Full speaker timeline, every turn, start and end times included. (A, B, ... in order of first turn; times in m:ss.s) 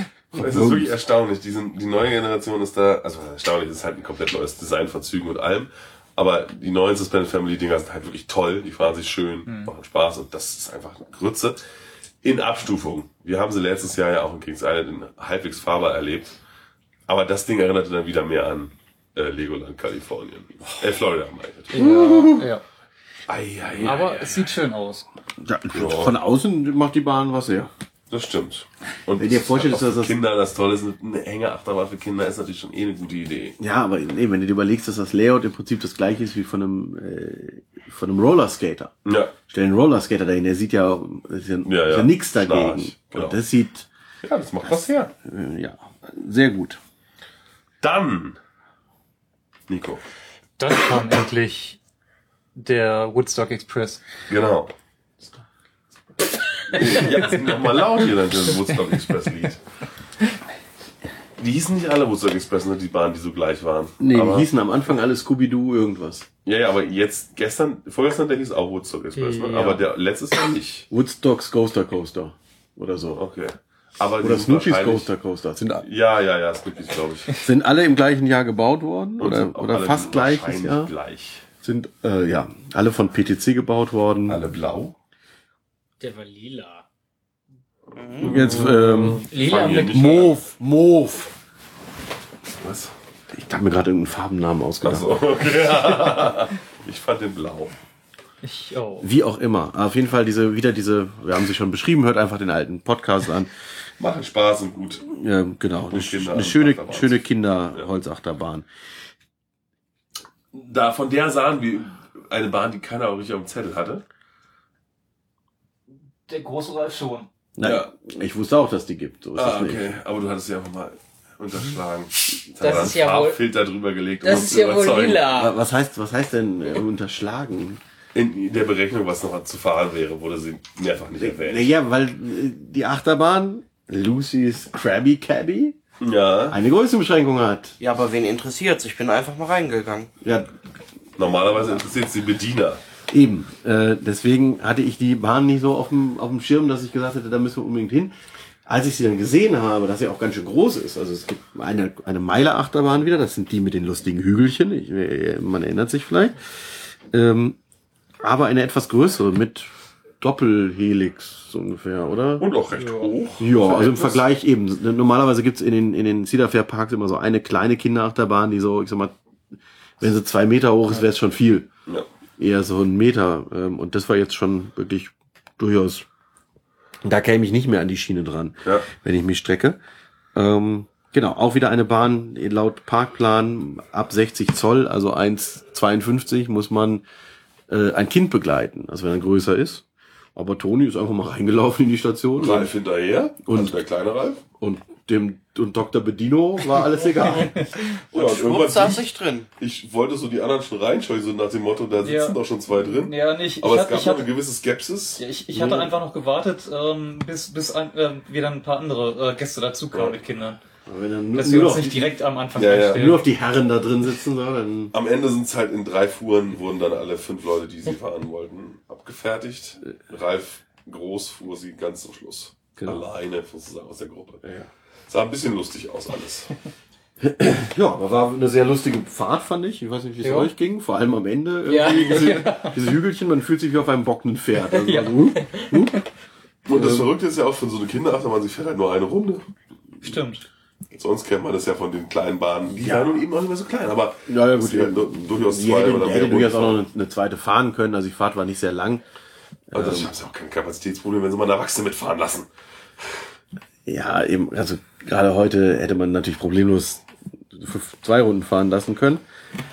0:00.3-0:00.9 A
0:00.3-0:11.6 B
0:12.2-0:16.4 B
0:17.1-0:22.1 B
0:21.7-0:22.6 C
0:21.7-0:22.5 A
0:23.3-0:24.4 B
0:23.8-0:25.1 C
0:25.4-0:27.7 A
0:25.7-0:26.2 B
0:28.1-0:33.6 B
0:29.2-0:30.2 A
0:33.6-0:38.9 A
0:39.0-0:39.3 B
0:39.5-0:43.9 A
0:41.6-0:43.4 B
0:44.2-0:45.1 B
0:45.2-0:46.8 A
0:47.8-0:48.4 B
0:49.7-0:50.0 B
0:50.6-0:51.8 C
0:52.6-0:54.0 C
0:54.3-0:54.7 B
0:56.7-0:59.6 B
1:01.4-1:04.5 B
1:04.0-1:06.3 A
1:06.4-1:10.9 B
1:09.2-1:09.8 C
1:10.9-1:13.2 A
1:13.1-1:15.1 B
1:14.2-1:15.8 A
1:15.8-1:17.3 B
1:17.4-1:20.9 A
1:19.2-1:21.4 B
1:21.6-1:24.4 A
1:24.3-1:24.9 B
1:26.0-1:26.8 D
1:28.0-1:28.3 E
1:28.1-1:28.7 B
1:28.2-1:31.3 A
1:29.2-1:30.3 D
1:29.2-1:30.3 B
1:32.6-1:32.9 B
1:33.3-1:35.1 A
1:34.8-1:37.7 B
1:38.4-1:39.1 C
1:39.0-1:43.5 A
1:44.0-1:45.1 B
1:45.1-1:48.6 A
1:45.9-1:47.2 B
1:50.5-1:54.0 B
1:56.3-1:57.3 C
1:57.6-1:59.9 A
1:57.6-1:57.9 B
1:59.4-2:05.3 B
2:02.6-2:03.4 D
2:04.2-2:05.5 D
2:05.2-2:07.8 A
2:08.1-2:11.7 B
2:11.2-2:15.8 A
2:16.0-2:16.6 B
2:16.5-2:17.8 A
2:17.8-2:20.1 E
2:20.2-2:20.5 A
2:21.2-2:22.8 B
2:23.1-2:28.1 A
2:28.7-2:36.5 A
2:37.1-2:37.6 A
2:38.2-2:39.7 A
2:40.2-2:42.5 A
2:42.4-2:44.2 B
2:42.8-2:43.1 C
2:43.4-2:49.1 A
2:50.0-2:51.7 A
2:52.4-2:56.0 A
2:57.0-2:59.8 A
3:00.3-3:07.0 A
3:07.7-3:09.8 A
3:10.3-3:12.7 A
3:12.4-3:14.4 B
3:13.4-3:13.8 A
3:14.6-3:17.7 A
3:18.1-3:19.0 B
3:18.1-3:19.5 E
3:19.6-3:25.2 B
3:22.0-3:24.3 C
3:25.2-3:30.6 C
3:25.5-3:25.9 A
3:29.9-3:30.2 B
3:30.9-3:32.2 A
3:31.4-3:33.2 C
3:32.6-3:33.2 B
3:32.8-3:34.9 A
3:34.9-3:44.4 B
3:42.8-3:43.0 A
3:44.4-3:44.7 A
3:45.1-3:46.5 B
3:47.2-3:56.0 A
3:50.2-3:50.5 C
3:51.7-3:52.4 D
3:52.0-3:52.8 C
3:54.8-3:55.3 C
3:56.7-3:59.4 B
3:56.7-3:57.1 A
4:00.0-4:00.4 C
4:00.9-4:06.8 B
4:02.7-4:03.1 A
4:04.2-4:09.0 A
4:09.7-4:10.1 A
4:09.7-4:12.5 B
4:13.8-4:19.2 A